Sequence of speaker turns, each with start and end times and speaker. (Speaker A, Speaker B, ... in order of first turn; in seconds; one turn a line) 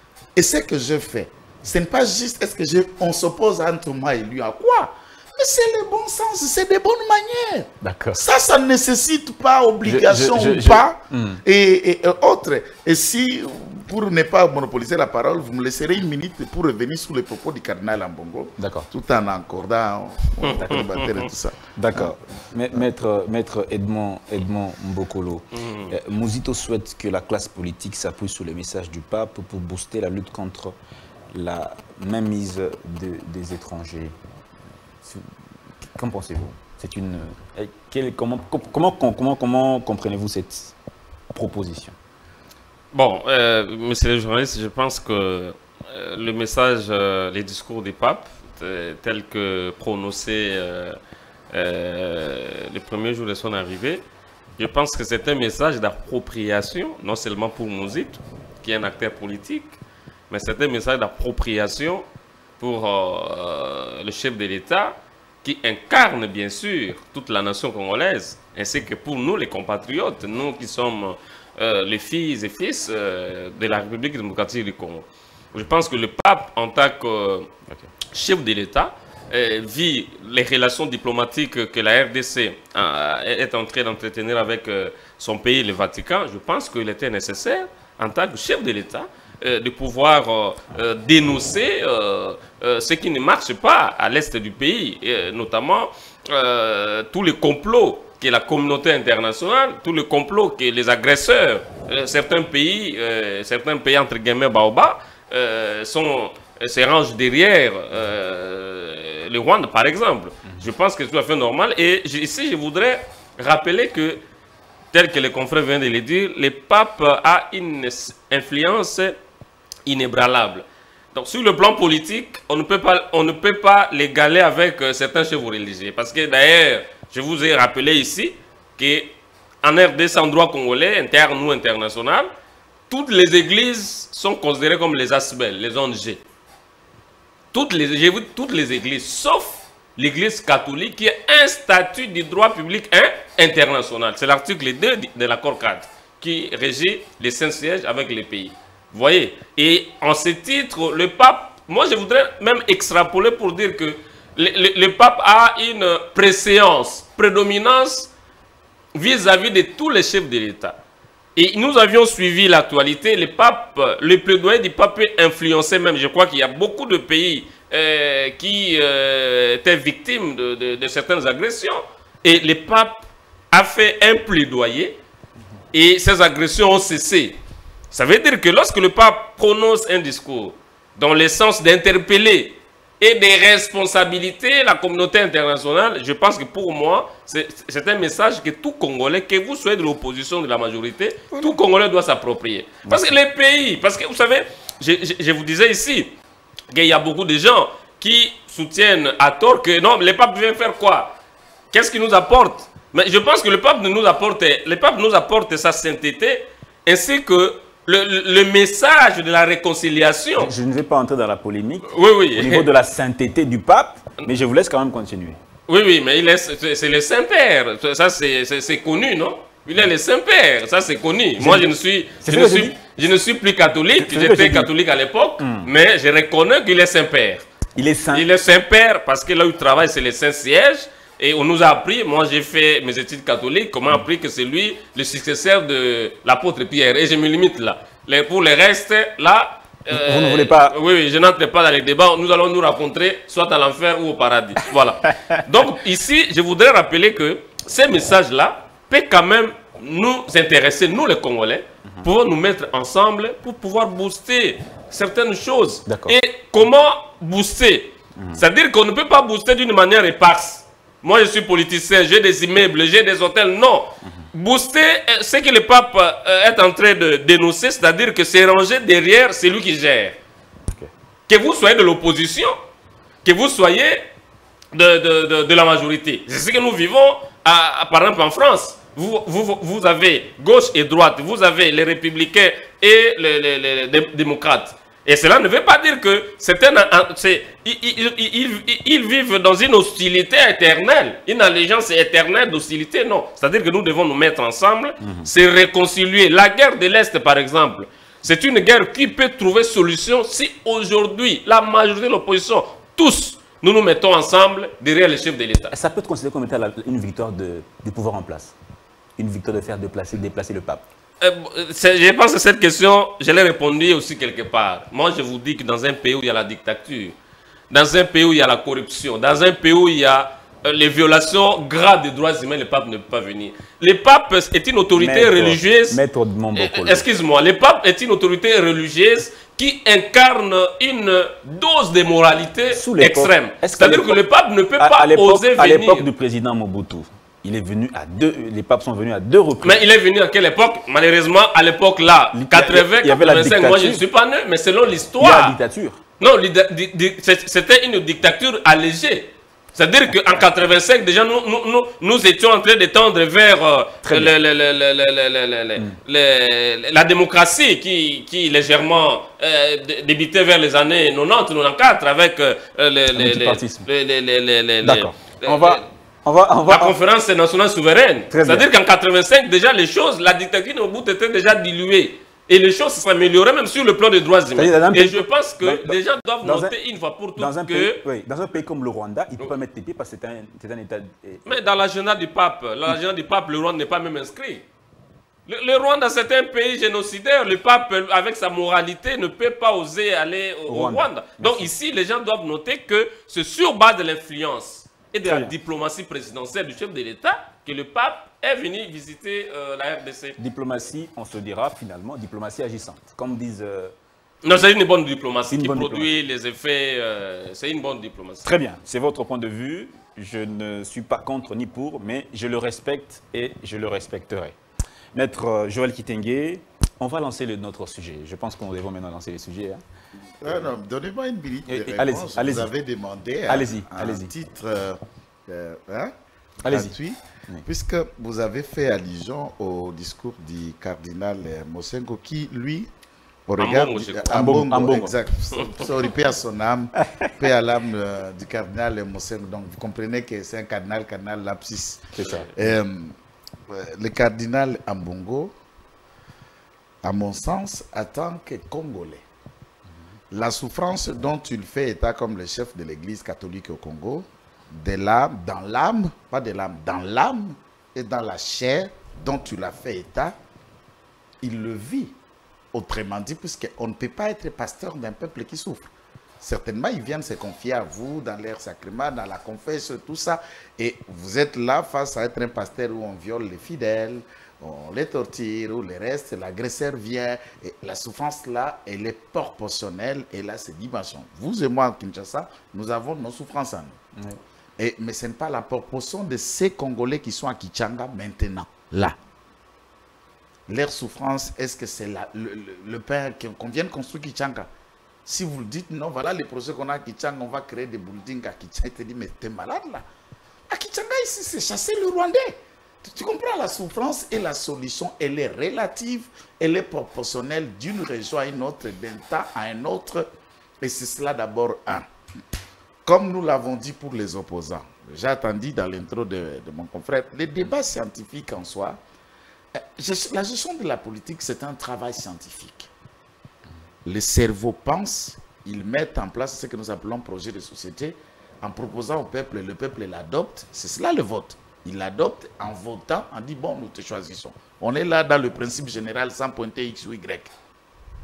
Speaker A: 0.4-22.1
Speaker B: 7.8-8.2
Speaker B: 9.8-11.4
Speaker B: 18.6-18.9
Speaker C: 20.4-21.3
Speaker B: 21.8-30.8
Speaker C: 25.6-25.9
Speaker B: 31.3-34.1
Speaker B: 35.0-35.3
Speaker B: 35.9-40.7
Speaker B: 41.3-42.0
Speaker C: 42.9-51.0
Speaker C: 51.5-54.0
Speaker C: 54.6-59.8
Speaker C: 60.3-62.1
Speaker C: 62.6-77.5
Speaker C: 78.1-114.2
Speaker C: 114.9-119.2
Speaker C: 119.9-132.3
Speaker C: 132.9-136.2
Speaker C: 137.5-158.1
Speaker C: 158.9-160.8
Speaker C: 161.4-175.0
Speaker C: 175.7-177.4
Speaker C: 177.9-196.2
Speaker B: 192.8-193.1
Speaker C: 196.7-201.2
Speaker C: 201.7-210.5
Speaker B: 210.4-215.4
Speaker C: 211.9-212.7
Speaker C: 215.7-227.5
Speaker B: 221.4-222.7
Speaker B: 224.0-224.7
Speaker B: 225.4-225.7
Speaker B: 227.8-228.3
Speaker C: 228.1-270.2
Speaker B: 239.9-240.8
Speaker B: 255.9-256.2
Speaker B: 258.2-258.4
Speaker C: 271.3-272.6
Speaker C: 273.2-274.0
Speaker C: 274.7-305.7
Speaker B: 295.0-295.3
Speaker B: 305.7-308.6
Speaker B: 309.2-310.9
Speaker C: 311.2-317.1
Speaker C: 317.7-326.0
Speaker B: 324.9-327.1
Speaker C: 326.5-336.1
Speaker B: 332.7-334.2
Speaker B: 334.8-339.8
Speaker C: 339.6-345.6
Speaker B: 342.3-344.0
Speaker B: 345.2-346.0
Speaker C: 346.2-365.9
Speaker B: 350.1-350.4
Speaker B: 354.1-354.3
Speaker B: 363.1-363.9
Speaker B: 364.8-367.0
Speaker C: 366.7-378.0
Speaker B: 368.3-368.7
Speaker B: 374.6-376.7
Speaker B: 377.4-381.5
Speaker C: 381.5-384.6
Speaker C: 385.5-400.4
Speaker B: 390.7-391.7
Speaker B: 395.3-395.5
Speaker B: 400.4-403.9
Speaker C: 404.4-408.5
Speaker B: 405.5-406.1
Speaker B: 408.4-414.6
Speaker B: 415.1-419.8
Speaker A: 420.4-432.9
Speaker B: 420.4-420.7
Speaker B: 421.7-422.7
Speaker B: 423.5-424.3
Speaker B: 426.6-426.9
Speaker A: 433.5-443.2
Speaker C: 433.6-434.6
Speaker B: 434.3-435.1
Speaker B: 442.1-442.5
Speaker A: 443.7-445.6
Speaker A: 447.0-449.2
Speaker A: 450.3-460.4
Speaker A: 461.4-462.1
Speaker A: 462.7-484.0
Speaker B: 484.2-484.4
Speaker A: 484.8-489.2
Speaker A: 490.7-494.7
Speaker A: 495.2-500.1
Speaker A: 500.7-510.3
Speaker A: 510.8-512.1
Speaker A: 513.0-519.0
Speaker A: 519.7-522.9
Speaker A: 524.0-537.5